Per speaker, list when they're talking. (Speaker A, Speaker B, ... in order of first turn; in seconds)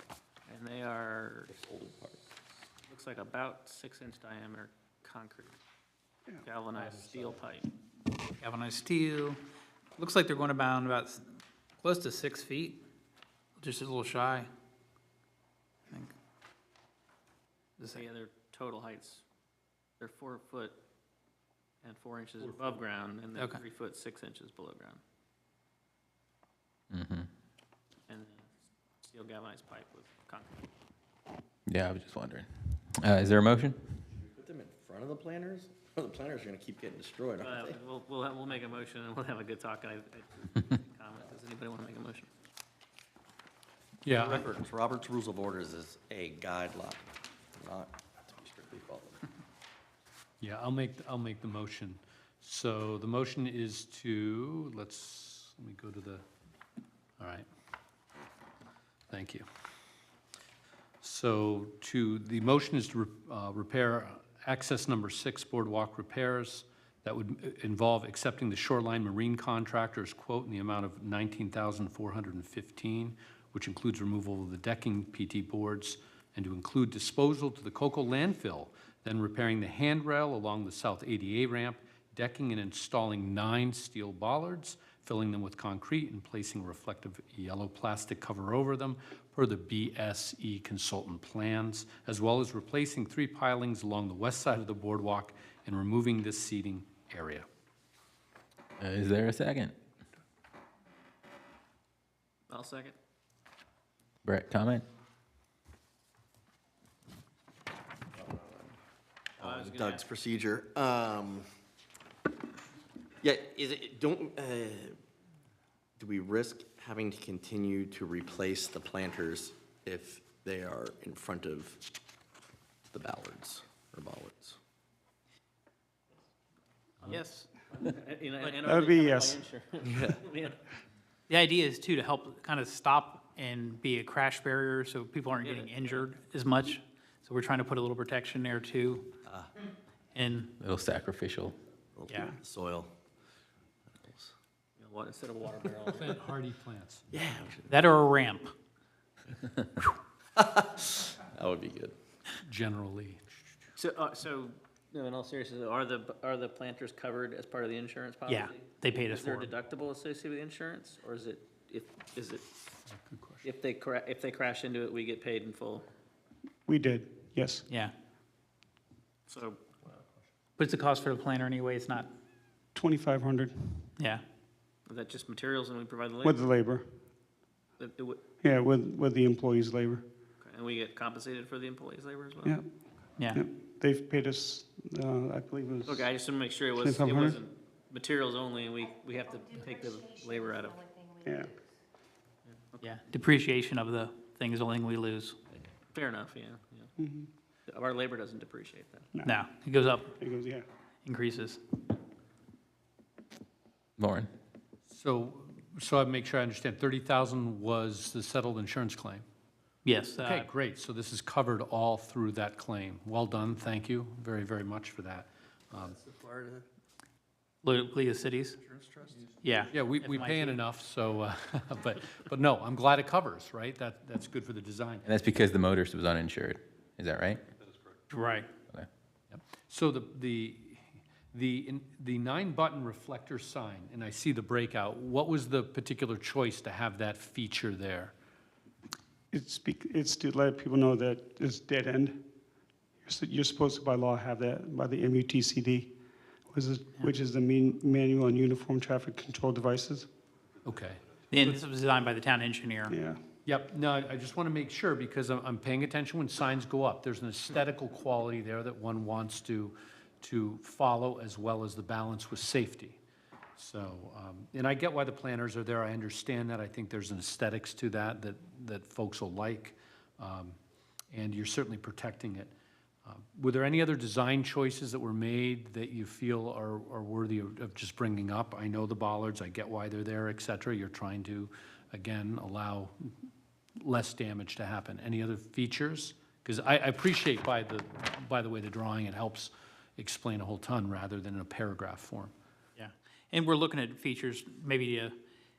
Speaker A: 0.5-1.5, 2.9-5.6, 6.4-7.7, 17.9-19.2, 20.0-20.8, 21.8-25.0, 28.1-28.4, 29.0-30.6, 37.4-42.3, 102.5-103.0, 109.4-110.0, 127.0-130.6, 135.4-136.1, 144.8-146.2, 153.8-162.5, 163.4-165.9, 169.3-169.6, 174.9-176.4, 177.8-178.2, 180.4-182.6, 185.8-191.0, 192.5-192.8, 195.9-196.9, 197.7-199.1
Speaker B: 1.5-2.3, 34.3-37.8, 44.1-49.3, 109.4-111.5, 113.2-115.0, 116.0-121.8, 122.9-124.6, 129.8-130.2, 139.2-139.5, 141.9-142.9, 143.9-144.3, 147.1-147.9, 150.3-152.0, 216.0-216.7, 218.8-219.4
Speaker C: 6.8-7.4, 44.0-44.5, 50.4-56.2, 57.2-57.5, 59.1-59.5, 61.0-97.5, 145.9-147.1, 152.4-153.4, 162.9-163.5, 204.9-209.2, 210.2-216.0, 219.7-225.1, 229.3-238.1, 250.7-251.6, 253.4-263.0, 263.6-270.6, 271.1-272.5, 273.1-283.1, 283.8-292.3
Speaker D: 8.4-9.4, 10.0-12.8, 13.6-14.5, 17.8-18.1, 23.4-23.6, 127.1-127.5, 131.3-139.1, 140.1-140.5, 147.7-148.5, 158.3-159.5, 167.7-167.9, 170.6-172.1, 174.0-174.2, 192.8-195.4, 199.2-200.1, 201.1-201.6, 209.8-210.5, 217.6-218.6, 219.4-220.6, 228.1-228.5, 251.3-253.0, 292.8-295.2
Speaker E: 26.9-27.3, 31.7-34.1, 98.8-99.8, 104.2-104.9, 140.6-141.6, 204.0-204.3, 225.1-227.4
Speaker F: 128.6-129.4, 166.7-167.7, 172.8-173.9, 176.2-177.0, 178.4-180.0, 183.3-186.1, 186.7-187.4, 191.2-191.5, 197.0-197.3, 200.2-200.7, 239.3-242.2, 243.1-245.9, 246.5-250.1, 252.9-253.2